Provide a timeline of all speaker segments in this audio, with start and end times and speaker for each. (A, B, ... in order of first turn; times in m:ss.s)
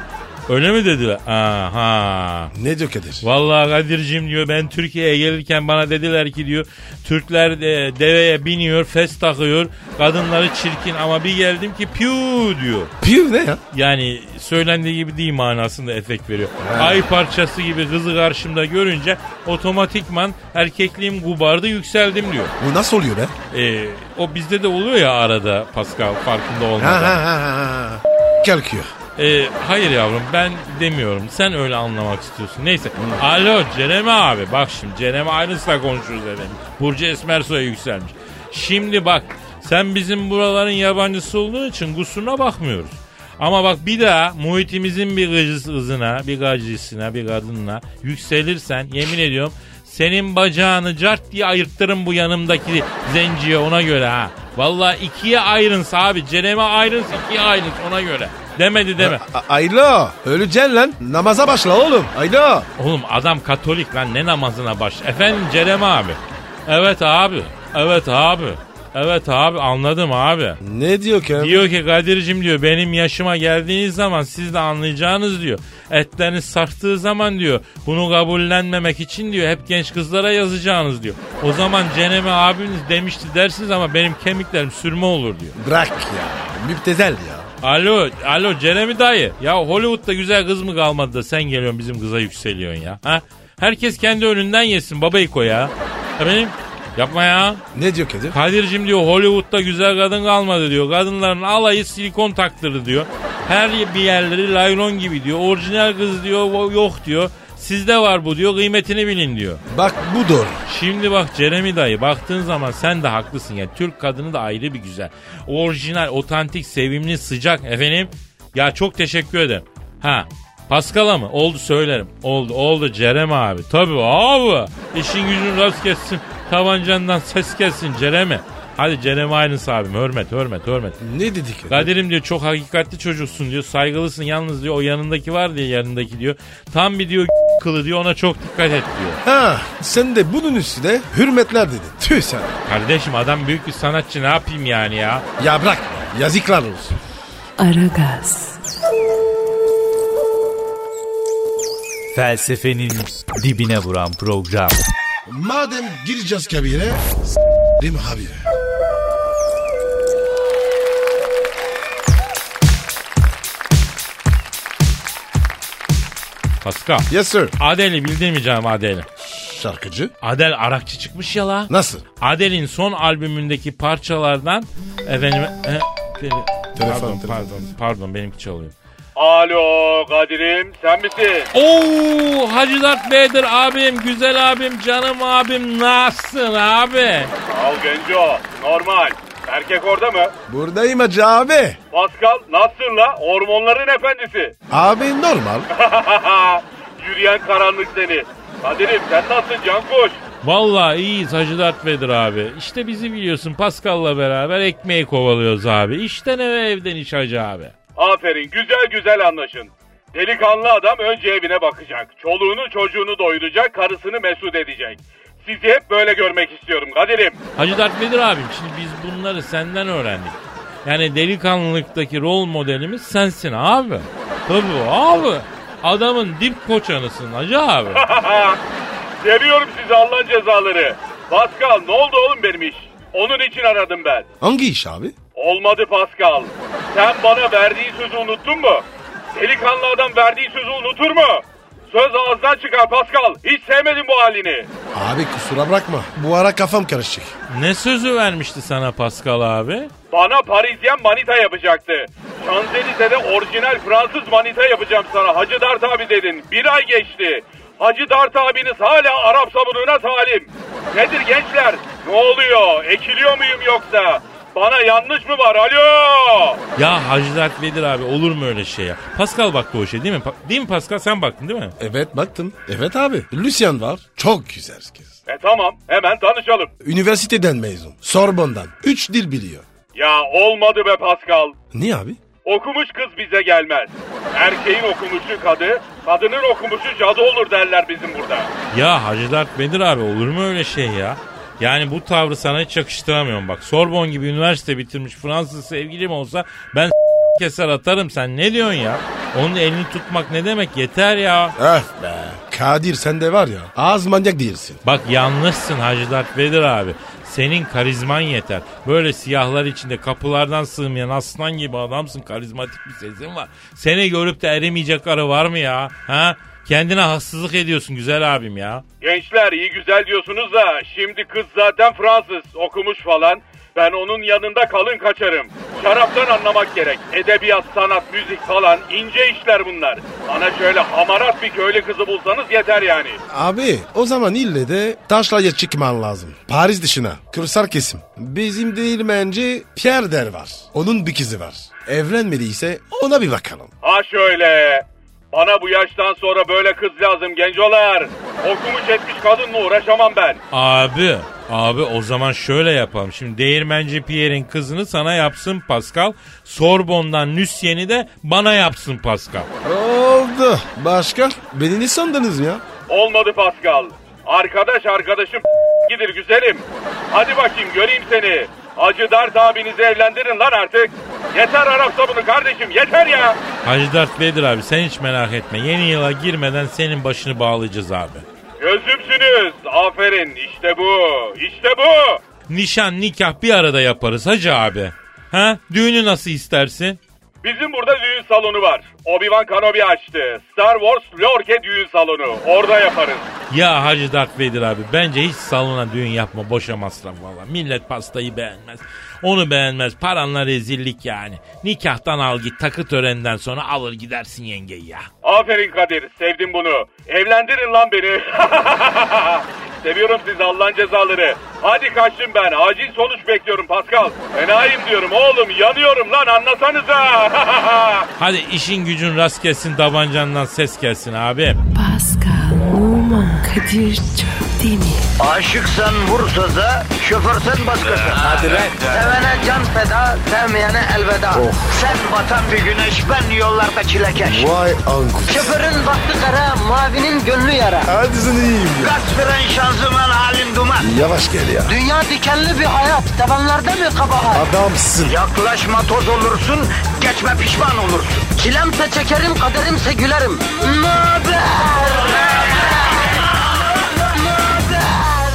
0:00.5-0:02.5 A
0:02.5-0:03.3 B
0:03.2-0:12.9 A
0:13.0-0:13.6 B
0:13.7-0:22.5 A
0:16.6-0:17.1 B
0:22.6-0:23.3 B
0:23.5-0:27.2 A
0:26.8-0:28.9 B
0:29.2-0:59.2 A
0:33.0-0:33.2 B
0:59.0-1:02.7 B
1:02.8-1:10.6 A
1:10.6-1:11.6 B
1:11.4-1:25.6 A
1:25.6-1:27.5 B
1:27.6-1:37.6 A
1:37.7-1:38.4 B
1:38.3-1:49.6 A
1:49.7-1:50.6 B
1:50.7-2:11.0 A
2:11.0-2:11.9 B
2:11.7-2:19.2 A
2:19.2-2:22.6 B
2:22.7-2:25.2 A
2:25.4-2:27.0 B
2:27.6-2:28.6 C
2:32.1-2:34.8 D
2:35.3-2:37.0 B
2:37.8-2:38.4 B
2:46.6-2:49.1 A
2:47.1-2:47.5 B
2:49.3-2:50.1 B
2:50.2-2:58.7 A
2:51.7-2:52.0 B
2:56.8-2:57.5 B
2:59.2-3:01.5 E
3:01.5-3:07.3 A
3:07.5-3:10.3 E
3:10.5-3:11.8 B
3:11.9-3:14.5 E
3:14.7-3:15.7 B
3:15.7-3:20.2 E
3:20.4-3:27.7 A
3:28.0-3:37.4 E
3:37.6-3:48.0 A
3:47.9-3:48.6 E
3:49.2-3:54.2 E
3:54.4-3:55.2 B
3:55.4-4:04.7 E
4:04.9-4:07.4 B
4:07.5-4:09.9 A
4:10.1-4:26.6 E
4:26.8-4:31.7 A
4:31.8-4:35.2 B
4:35.3-4:36.7 E
4:36.8-4:39.6 B
4:40.0-4:41.6 E
4:41.7-4:42.2 B
4:42.4-4:48.5 E
4:48.7-5:01.6 A
5:01.6-5:04.8 B
5:04.8-5:18.8 A
5:19.0-5:33.2 E
5:33.3-5:43.7 B
5:43.8-5:50.4 E
5:50.5-5:59.5 A
5:59.6-6:02.6 B
6:02.9-6:13.4 E
6:13.6-6:18.2 A
6:18.6-6:22.2 E
6:22.5-6:27.0 A
6:27.4-6:33.3 E
6:33.5-6:45.1 A
6:45.2-6:58.1 E
6:58.2-7:01.6 A
7:01.7-7:05.1 C
7:05.2-7:08.3 F
7:08.4-7:08.7 D
7:08.9-7:14.5 F
7:11.3-7:11.7 B
7:14.2-7:15.5 B
7:15.3-7:17.9 F
7:17.9-7:19.0 B
7:18.8-7:20.9 F
7:20.8-7:21.8 B
7:21.7-7:24.5 F
7:24.3-7:25.2 B
7:25.0-7:32.5 F
7:34.4-7:35.0 F